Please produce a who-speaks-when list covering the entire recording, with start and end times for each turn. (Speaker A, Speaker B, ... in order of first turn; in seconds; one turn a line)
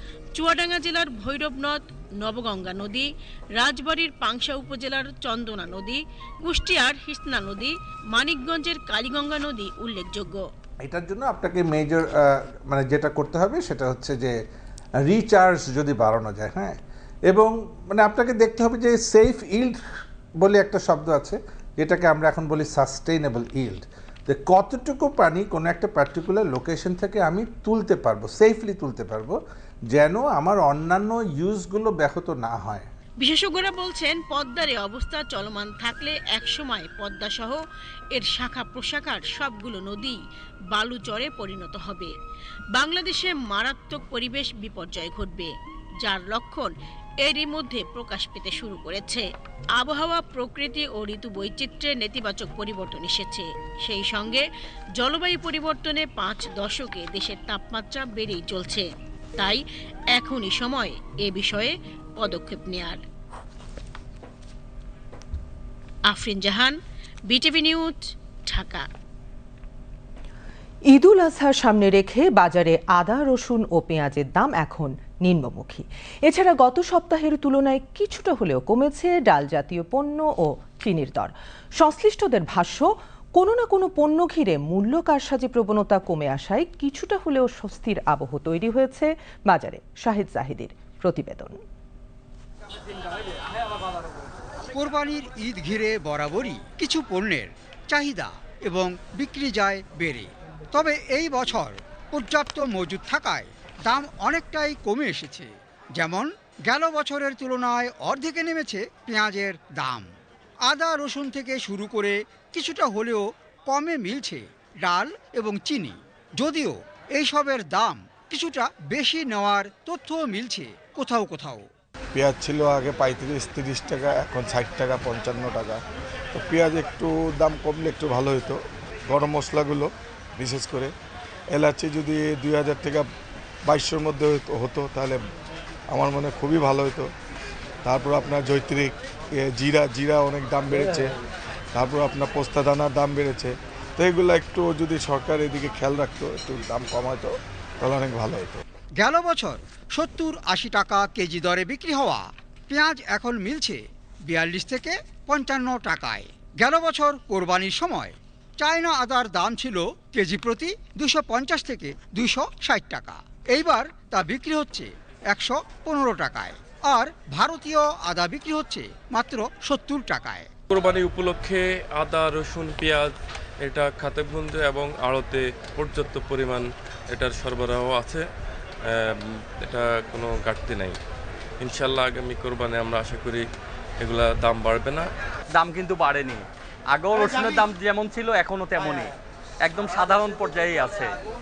Speaker A: 0.3-10.4
Speaker B: 10.8-14.3
Speaker B: 15.1-16.8
Speaker B: 17.3-19.8
Speaker B: 20.4-29.4
Speaker B: 29.9-32.9
Speaker A: 33.2-37.6
Speaker A: 38.1-40.2
Speaker A: 40.7-42.1
Speaker A: 42.7-45.5
Speaker A: 46.0-46.7
Speaker A: 47.2-49.2
Speaker A: 49.8-54.4
Speaker A: 55.0-59.6
Speaker A: 60.1-63.0
Speaker A: 66.1-66.8
Speaker A: 67.3-68.8
Speaker C: 70.9-91.6
Speaker D: 94.7-110.1
Speaker D: 110.7-121.7
Speaker E: 122.1-125.8
Speaker E: 126.3-128.6
Speaker E: 129.1-130.9
Speaker E: 131.5-133.0
Speaker E: 133.7-135.2
Speaker E: 135.9-137.1
Speaker E: 137.8-141.1
Speaker E: 141.7-148.6
Speaker D: 149.0-170.5
Speaker F: 170.7-173.1
Speaker F: 173.6-178.2
Speaker F: 179.6-181.0
Speaker F: 181.6-183.4
Speaker F: 184.0-185.1
Speaker G: 185.6-189.1
Speaker G: 189.6-191.1